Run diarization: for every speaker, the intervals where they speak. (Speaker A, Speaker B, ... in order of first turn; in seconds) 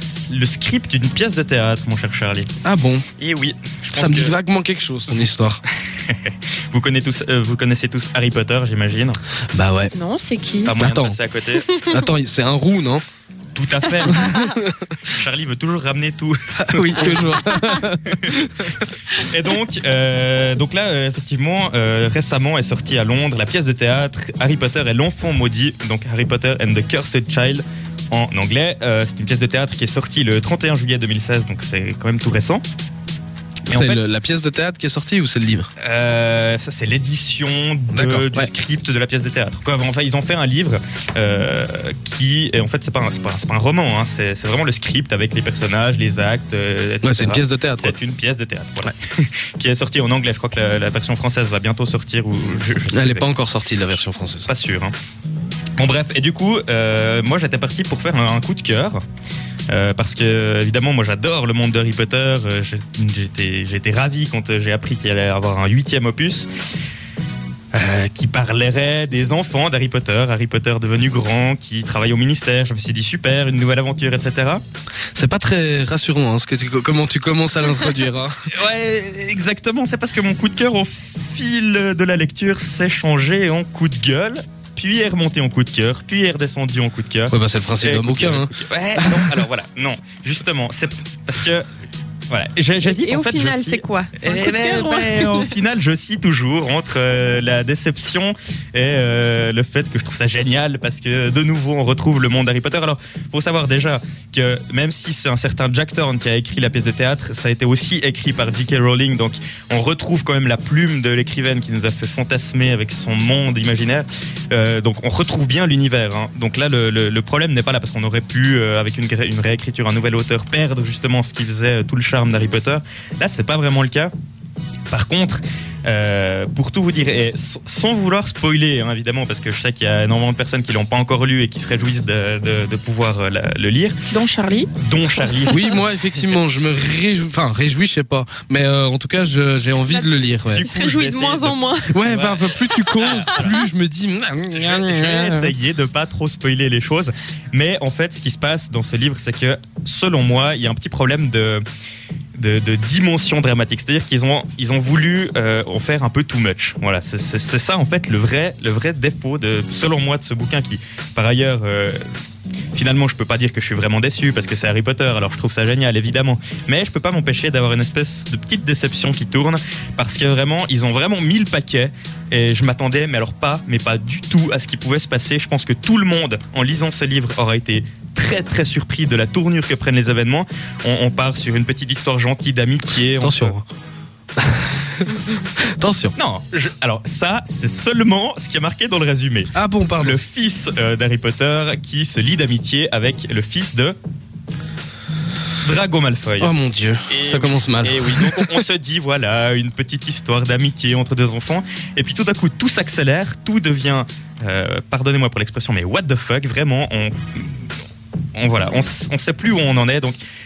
Speaker A: 0.3-2.5, 3.2-4.3, 6.0-9.2, 10.7-11.8, 13.6-14.3, 15.0-17.4, 18.1-18.4, 19.1-32.6, 33.7-34.1, 35.8-53.3, 54.5-54.9, 55.8-59.0, 59.7-66.5, 67.7-74.6, 78.5-91.7, 92.3-124.1, 124.9-134.0, 134.8-136.3, 140.5-143.6, 144.6-151.6, 152.4-162.0, 162.7-183.6, 186.2-194.0, 195.6-196.5, 197.1-207.7, 208.4-210.2
Speaker B: 2.6-3.0, 4.0-5.6, 9.5-9.9, 10.8-13.0, 14.0-14.9, 16.6-18.8, 33.7-35.7, 37.9-38.5, 47.0-48.0, 52.9-54.5, 75.2-78.3, 87.3-89.4, 135.5-140.7, 141.9-145.6, 183.2-183.7, 184.4-186.2, 189.5-190.2, 196.4-198.6
Speaker C: 9.9-10.8, 92.8-95.5, 134.1-134.7, 139.8-141.9